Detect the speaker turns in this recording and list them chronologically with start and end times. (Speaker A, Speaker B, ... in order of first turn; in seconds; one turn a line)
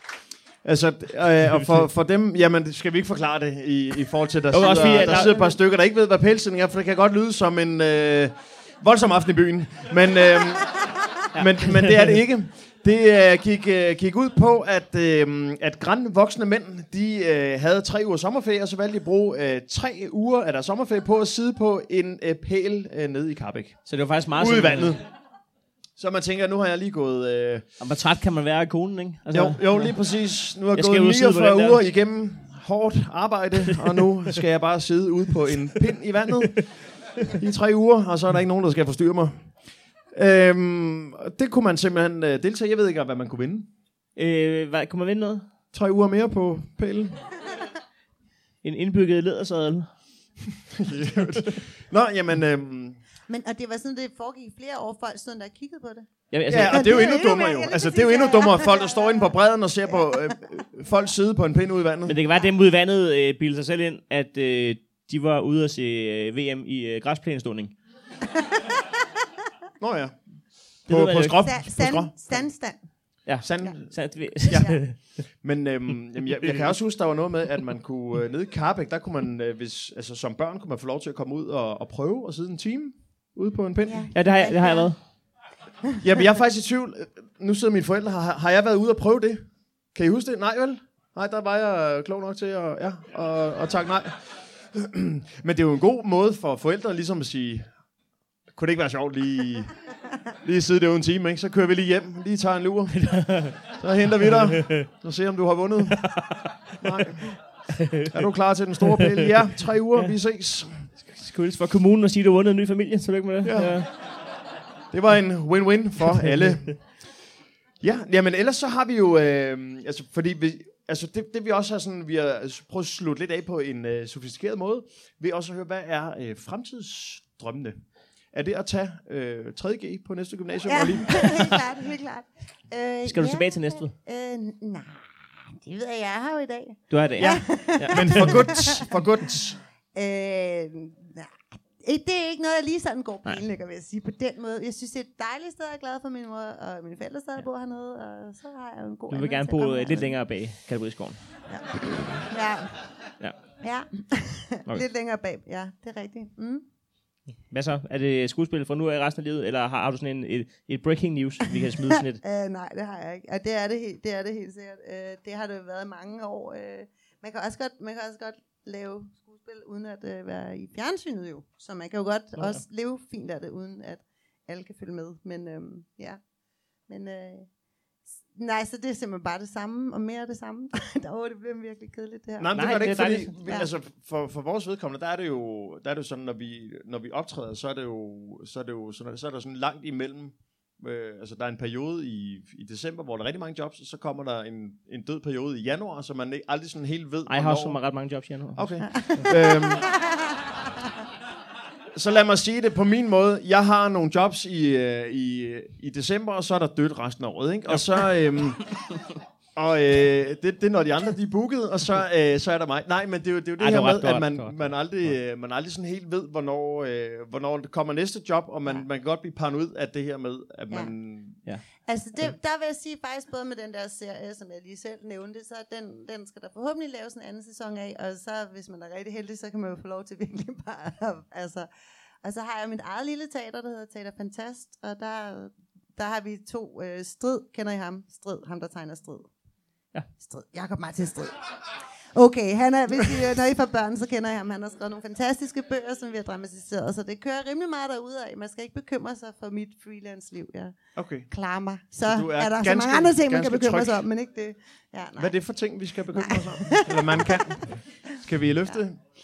Speaker A: 0.6-23.8
Speaker B: 4.5-5.5
Speaker C: 4.8-5.5
Speaker B: 11.3-12.2
Speaker B: 23.9-25.0
Speaker A: 24.3-25.0
Speaker A: 26.0-27.6
Speaker B: 27.8-29.9
Speaker A: 29.3-36.7
Speaker B: 30.7-31.8
Speaker B: 33.7-34.0
Speaker A: 37.2-39.3
Speaker A: 40.1-43.7
Speaker B: 44.2-45.5
Speaker A: 45.7-47.2
Speaker B: 48.6-49.9
Speaker A: 50.7-53.0
Speaker C: 53.3-56.1
Speaker B: 56.3-57.1
Speaker A: 56.5-62.2
Speaker C: 56.6-59.3
Speaker B: 62.1-67.8
Speaker C: 68.3-68.7
Speaker A: 69.8-70.2
Speaker B: 70.9-71.4
Speaker A: 70.9-72.5
Speaker C: 71.4-73.8
Speaker B: 73.2-75.2
Speaker A: 73.4-84.1
Speaker C: 74.5-74.8
Speaker C: 83.9-85.1
Speaker B: 84.1-85.0
Speaker A: 86.0-97.7
Speaker A: 98.5-99.7
Speaker A: 100.4-106.0
Speaker B: 103.0-103.6
Speaker B: 104.5-104.9
Speaker B: 105.9-106.4
Speaker A: 106.8-107.3
Speaker B: 107.8-108.1
Speaker A: 108.0-110.9
Speaker B: 108.9-109.3
Speaker B: 111.1-113.9
Speaker A: 113.4-113.8
Speaker A: 114.9-116.8
Speaker A: 117.8-127.8
Speaker A: 128.3-131.3
Speaker C: 130.7-138.9
Speaker B: 131.3-131.6
Speaker B: 133.1-133.9
Speaker B: 136.9-138.5
Speaker A: 137.9-139.6
Speaker C: 139.9-150.2
Speaker B: 149.1-151.2
Speaker C: 151.5-152.8
Speaker C: 153.6-156.7
Speaker B: 157.5-162.2
Speaker C: 162.2-176.2
Speaker C: 176.9-177.5
Speaker C: 178.3-182.8
Speaker A: 182.4-197.8
Speaker B: 182.5-183.4
Speaker C: 183.4-183.7
Speaker B: 197.3-199.2
Speaker A: 198.6-199.9
Speaker C: 199.1-200.2
Speaker A: 201.9-208.7
Speaker B: 207.7-208.1
Speaker A: 209.6-221.4
Speaker B: 213.6-214.7
Speaker C: 221.8-231.7
Speaker C: 232.2-239.3
Speaker C: 240.2-241.4
Speaker C: 242.1-250.8
Speaker A: 251.0-251.3
Speaker C: 251.3-255.4
Speaker A: 252.0-254.0
Speaker A: 255.2-259.0
Speaker C: 256.1-258.8